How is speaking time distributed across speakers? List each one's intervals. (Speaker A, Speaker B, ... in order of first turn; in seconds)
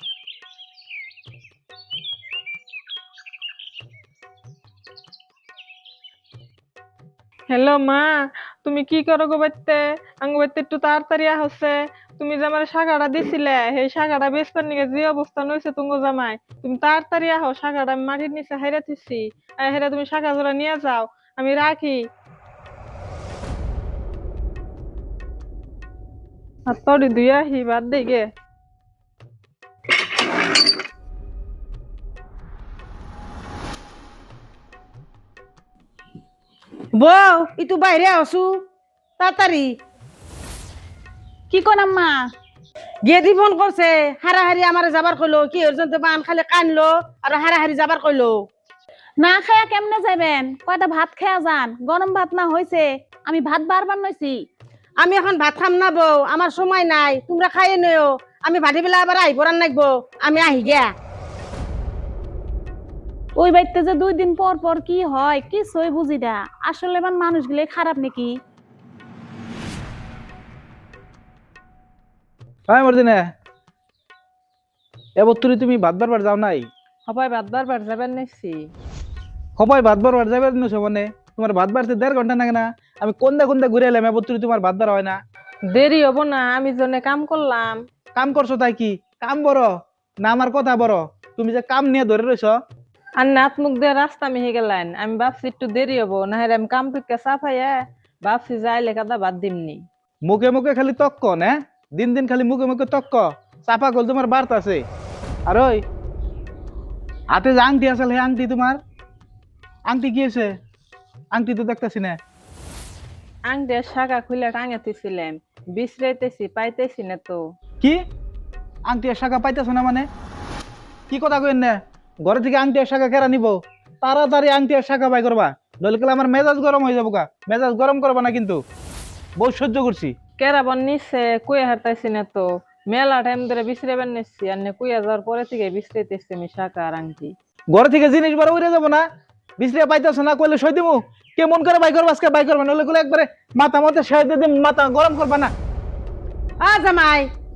Speaker A: 7.5-22.1, 26.7-28.3, 77.1-78.7, 85.7-87.8, 93.2-99.8, 113.5-117.4, 130.4-137.3
Speaker B: 37.0-38.6, 39.2-39.7, 43.0-48.4, 55.0-60.9, 146.6-147.3
Speaker C: 41.5-42.3, 49.2-54.4, 63.4-68.3
Speaker D: 72.7-73.2, 75.2-76.7, 79.6-85.2, 88.2-89.7, 90.2-92.6, 100.3-104.8, 105.5-105.8, 107.3-108.8, 109.9-110.5, 111.3-112.2, 118.9-120.1, 121.1-128.6, 129.4-130.1, 137.7-139.0, 139.6-145.5